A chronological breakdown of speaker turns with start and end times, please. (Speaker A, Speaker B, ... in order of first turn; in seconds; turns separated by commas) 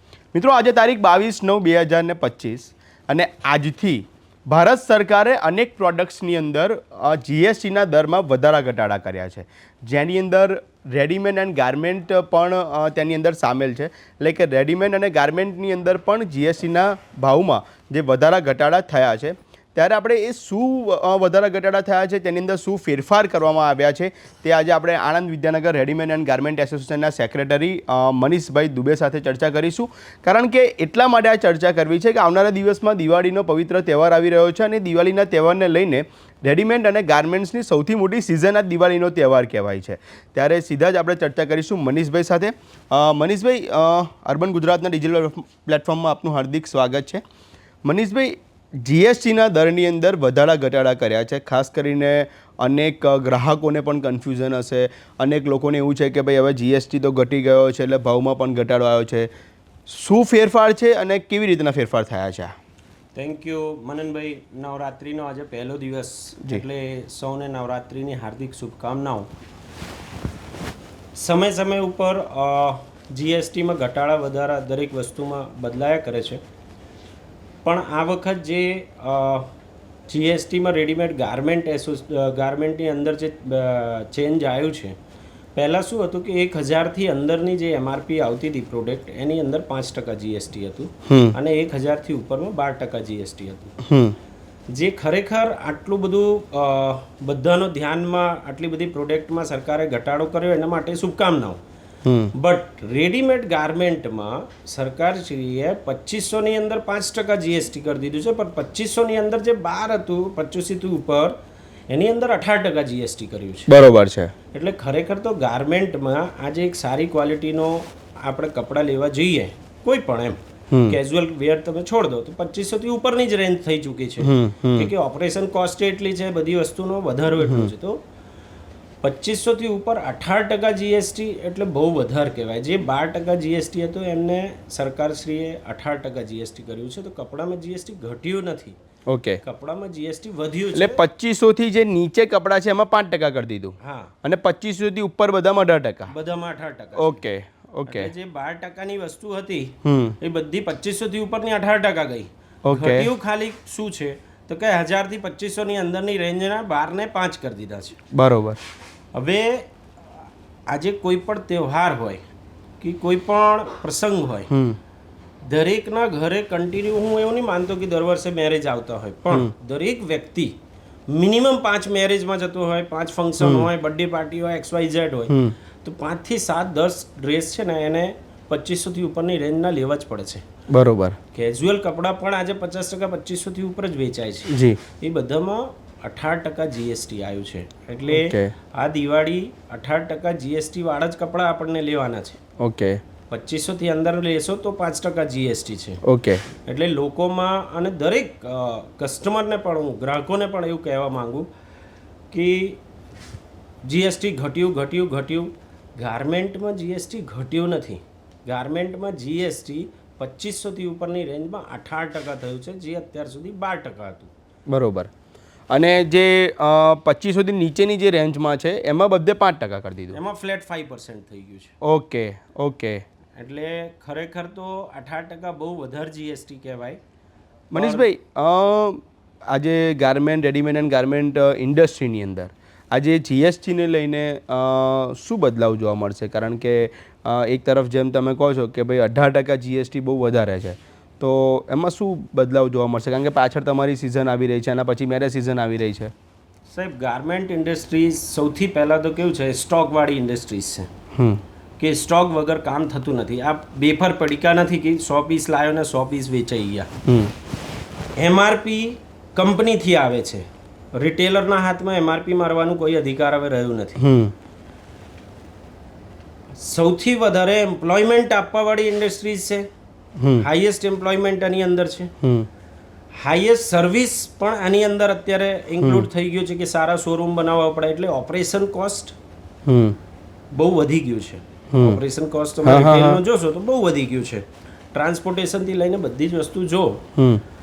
Speaker A: 0.3-47.2, Speaker A: 47.9-59.3, Speaker A: 59.9-62.5, Speaker B: 63.1-69.3, Speaker B: 71.2-76.4, Speaker B: 77.7-79.5, Speaker B: 80.1-85.0, Speaker B: 85.5-93.8, Speaker A: 91.1-91.3, Speaker A: 93.8-94.2, Speaker B: 94.7-101.6, Speaker A: 102.0-102.3, Speaker B: 102.3-111.4, Speaker B: 111.9-113.7, Speaker A: 113.7-114.3, Speaker B: 114.5-128.0, Speaker A: 120.7-121.0, Speaker A: 124.2-124.9, Speaker A: 127.5-127.7, Speaker B: 129.0-138.8, Speaker A: 139.1-139.4, Speaker B: 139.4-141.0, Speaker A: 140.7-146.1, Speaker B: 143.8-144.1, Speaker B: 146.1-147.2, Speaker A: 147.0-148.1, Speaker B: 147.9-158.0, Speaker A: 149.8-150.2, Speaker A: 152.7-153.1, Speaker A: 158.1-158.6, Speaker B: 159.1-159.7, Speaker B: 160.7-162.2, Speaker B: 162.8-164.5, Speaker A: 164.5-164.8, Speaker B: 165.4-170.6, Speaker B: 171.1-180.4, Speaker A: 173.4-173.7, Speaker A: 175.3-175.6, Speaker A: 180.7-181.2, Speaker B: 181.3-192.4, Speaker A: 184.5-184.8, Speaker A: 188.1-188.5, Speaker A: 192.6-193.0, Speaker B: 193.3-196.0, Speaker A: 196.0-196.4, Speaker B: 196.7-201.5, Speaker B: 202.3-202.8, Speaker B: 203.8-214.3, Speaker A: 214.7-215.1, Speaker A: 215.7-220.2, Speaker B: 220.1-221.7, Speaker A: 221.8-223.0, Speaker B: 223.4-227.0, Speaker B: 227.7-228.1, Speaker A: 227.7-246.1, Speaker B: 246.7-250.9, Speaker A: 251.2-251.4, Speaker B: 251.8-256.9, Speaker A: 257.1-257.3, Speaker B: 258.2-264.0, Speaker A: 264.0-264.3, Speaker B: 266.6-269.7, Speaker A: 270.2-270.4, Speaker B: 270.4-272.1, Speaker A: 272.2-272.5, Speaker B: 273.1-279.1, Speaker A: 275.8-276.1, Speaker A: 279.7-280.0, Speaker B: 280.5-287.0, Speaker A: 281.7-282.0, Speaker A: 282.6-283.2, Speaker A: 287.2-287.4